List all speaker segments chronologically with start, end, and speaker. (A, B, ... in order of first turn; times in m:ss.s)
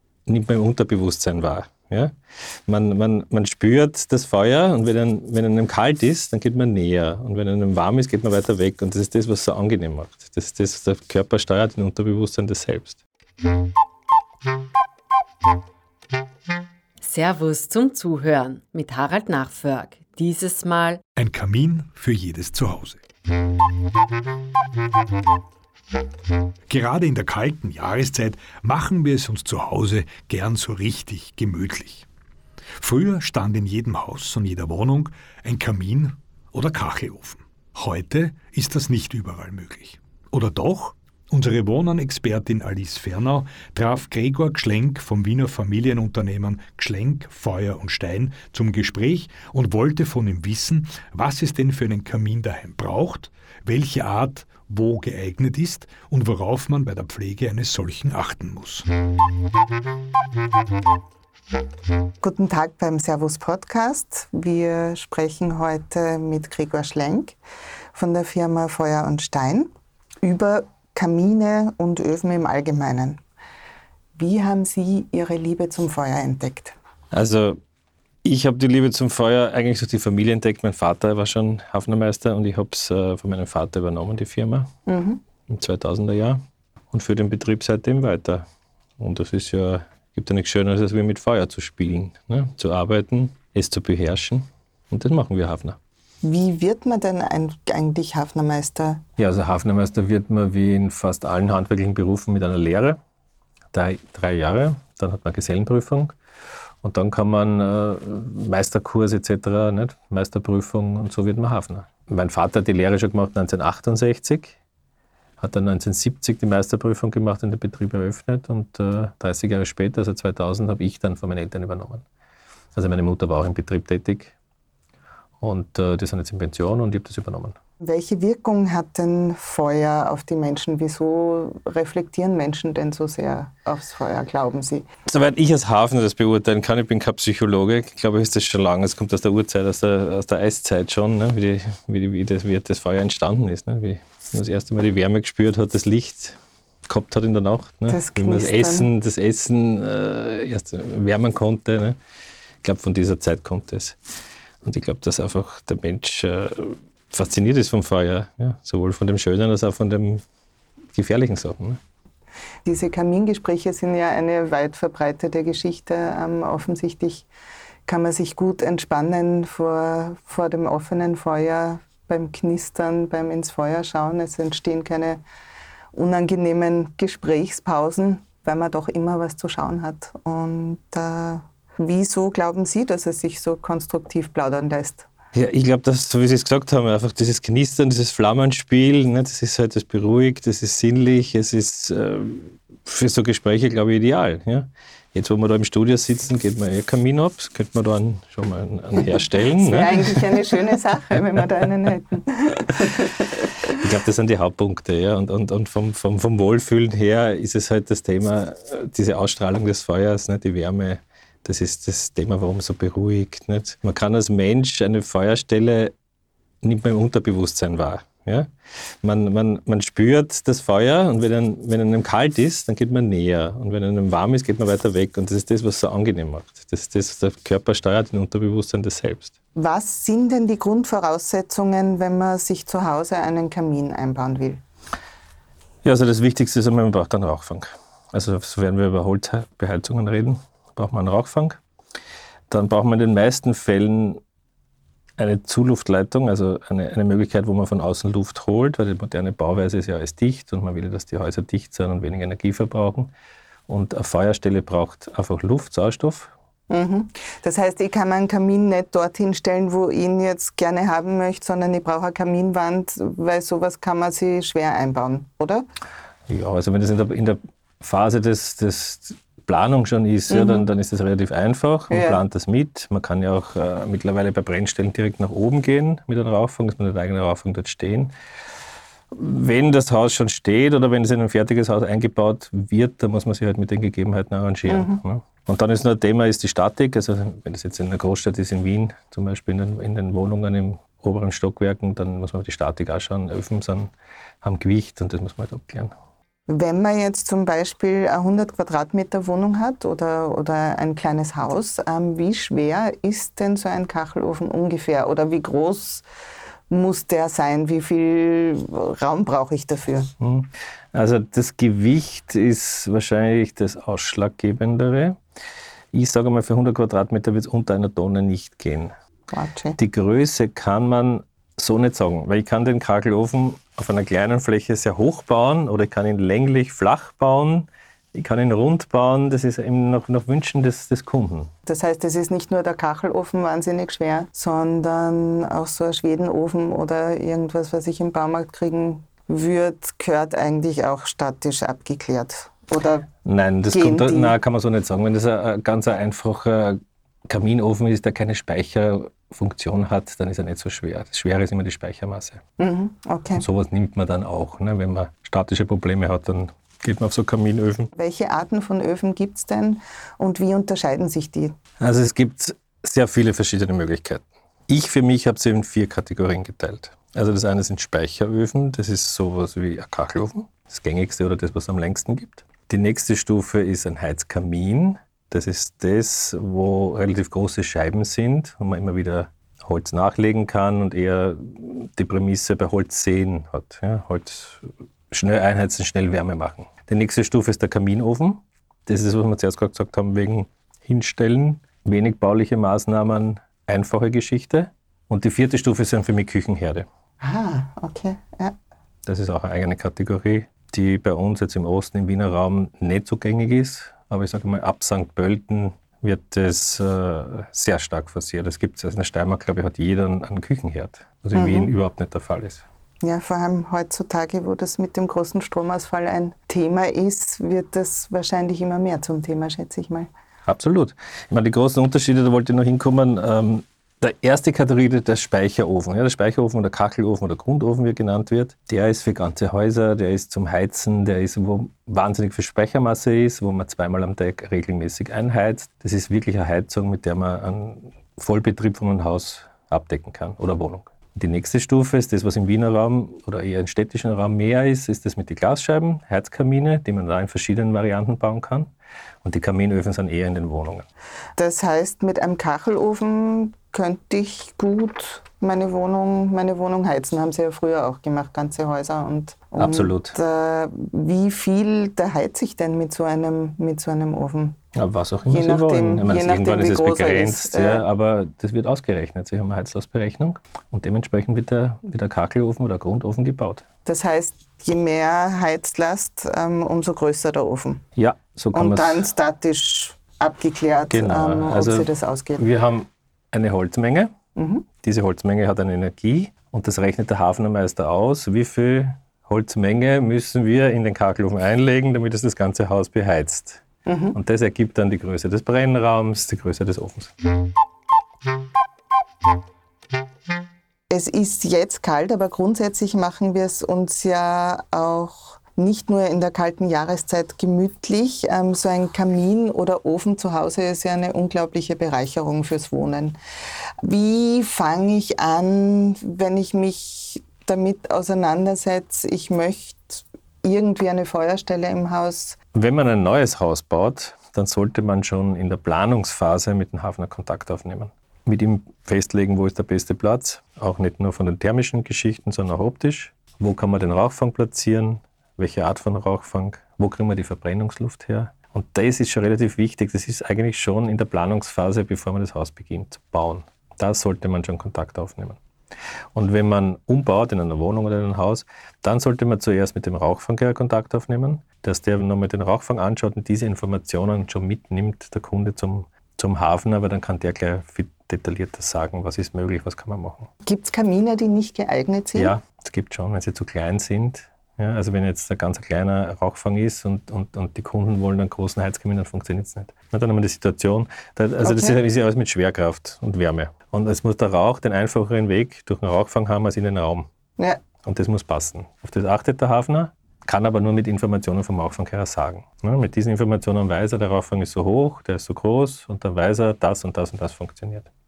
0:00.3-0:02.2 A
0:02.7-0:13.0 A
0:17.0-0:21.0 B
0:21.2-0:23.0 C
0:26.7-0:32.0 C
0:32.8-0:58.9 C
1:02.2-1:07.4 D
1:07.9-1:09.7 D
1:10.2-1:13.2 D
1:14.2-1:16.8 D
1:17.1-1:17.6 A
1:18.2-1:24.7 A
1:24.9-1:25.2 D
1:25.5-1:26.4 A
1:26.9-1:28.4 A
1:29.0-1:35.8 A
1:36.2-1:39.0 D
1:39.2-1:43.0 A
1:43.7-1:46.2 A
1:46.8-1:54.6 A
1:55.4-2:02.0 A
2:02.8-2:04.3 A
2:05.4-2:07.6 A
2:07.8-2:14.8 D
2:15.1-2:32.0 A
2:27.9-2:28.9 D
2:32.6-2:34.0 A
2:34.6-2:40.2 A
2:40.9-2:41.8 A
2:42.6-2:47.2 D
2:47.8-2:55.2 D
2:55.9-3:05.1 D
3:05.3-3:20.5 A
3:19.1-3:23.7 D
3:23.8-3:35.9 A
3:36.6-3:38.5 A
3:39.0-3:49.3 A
3:49.6-3:54.6 D
3:55.8-4:01.6 A
4:02.5-4:04.2 A
4:05.2-4:13.1 A
4:13.7-4:16.3 A
4:16.7-4:25.7 D
4:26.3-4:38.1 A
4:30.3-4:30.6 D
4:31.9-4:32.2 D
4:39.1-4:53.9 A
4:44.6-4:45.0 D
4:54.4-4:55.9 A
4:56.5-5:06.0 D
5:06.7-5:10.1 D
5:10.2-5:15.2 A
5:15.9-5:18.9 A
5:19.3-5:19.8 D
5:19.8-5:31.5 A
5:31.6-5:43.1 D
5:43.2-5:52.4 A
5:43.7-5:44.3 D
5:52.6-5:53.4 D
5:53.4-5:57.9 A
5:57.9-6:01.6 D
6:01.8-6:36.9 A
6:37.2-6:38.5 D
6:39.0-6:52.6 A
6:51.3-6:51.7 D
6:53.0-7:00.1 D
7:00.5-7:28.7 A
7:29.2-7:30.9 A
7:31.4-7:44.6 D
7:39.6-7:40.2 A
7:44.7-7:53.6 A
7:45.3-7:47.8 D
7:53.8-7:57.8 D
7:58.0-7:59.0 A
7:58.5-8:02.4 D
8:00.9-8:04.1 A
8:04.4-8:04.6 D
8:04.8-8:13.6 A
8:13.8-8:14.2 D
8:14.1-8:17.1 A
8:20.9-8:33.2 D
8:33.8-8:42.4 D
8:42.5-9:05.4 A
9:06.1-9:20.3 A
9:20.4-9:22.3 D
9:22.1-9:37.1 A
9:31.4-9:31.8 D
9:37.8-9:47.9 A